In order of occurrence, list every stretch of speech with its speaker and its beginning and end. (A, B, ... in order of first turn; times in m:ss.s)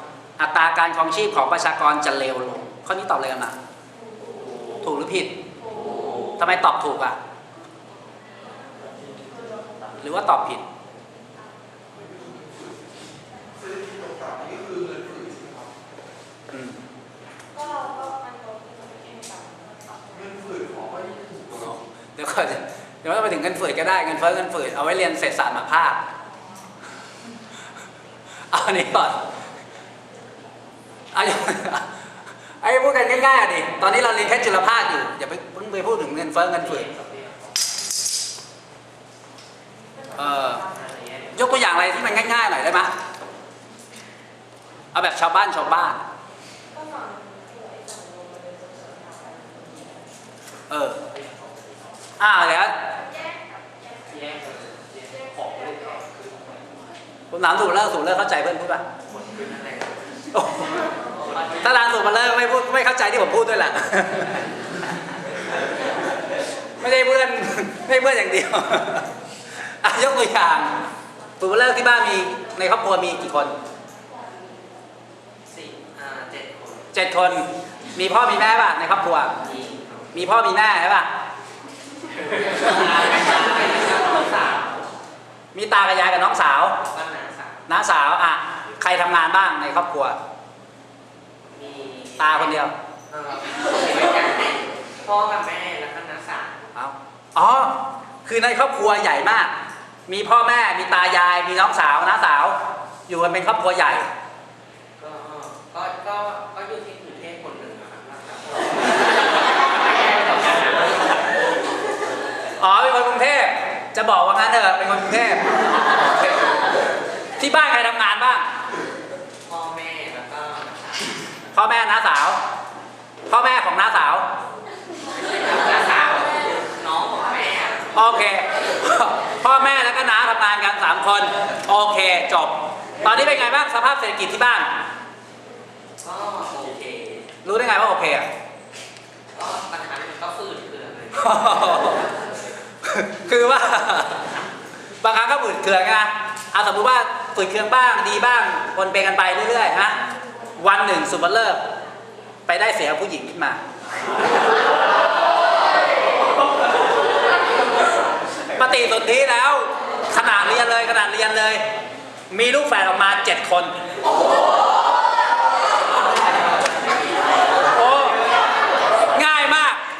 0:00.4-0:03.5 A
0:04.8-0:05.3 A
0:06.4-0:07.2 A
0:10.0-0:10.6 A
0:14.2-0:15.3 B
0:16.5-0:16.8 A
0:17.6-0:21.0 B
0:21.4-0:26.0 A
0:28.5-0:29.2 A
0:31.1-0:31.8 A
0:32.6-0:36.9 A
0:36.6-0:37.4 C
0:40.2-0:40.6 A
0:40.7-0:41.4 C
0:41.3-0:42.9 A
0:44.9-0:46.0 A
0:46.8-0:49.4 B
0:50.7-0:51.0 A
0:52.2-0:52.8 A
0:54.1-0:56.3 C
0:57.3-0:58.8 A
0:59.1-1:00.2 C
1:00.3-1:00.9 A
1:01.2-1:01.7 C
1:01.6-1:04.4 A
1:06.8-1:09.1 A
1:09.8-1:10.8 A
1:11.4-1:13.6 A
1:15.5-1:16.9 C
1:16.9-1:19.4 A
1:19.4-1:20.1 C
1:20.1-1:21.1 A
1:22.2-1:24.8 C
1:25.5-1:26.8 A
1:26.8-1:27.6 C
1:27.7-1:30.2 A
1:31.5-1:32.6 C
1:32.2-1:32.7 A
1:33.1-1:36.6 C
1:36.7-1:39.5 A
1:40.1-1:42.6 A
1:43.1-1:44.1 A
1:45.0-1:51.4 C
1:52.6-1:56.4 A
1:57.4-1:58.4 A
1:59.4-2:01.3 C
2:01.5-2:02.4 A
2:03.3-2:04.2 A
2:05.1-2:07.9 C
2:07.9-2:14.7 A
2:16.0-2:17.3 C
2:17.4-2:18.3 A
2:19.3-2:21.4 C
2:21.2-2:22.1 A
2:22.8-2:24.2 A
2:25.0-2:30.0 A
2:30.6-2:31.6 A
2:32.5-2:33.6 A
2:38.6-2:41.6 A
2:42.3-2:43.7 A
2:47.7-2:48.2 A
2:49.1-2:49.8 A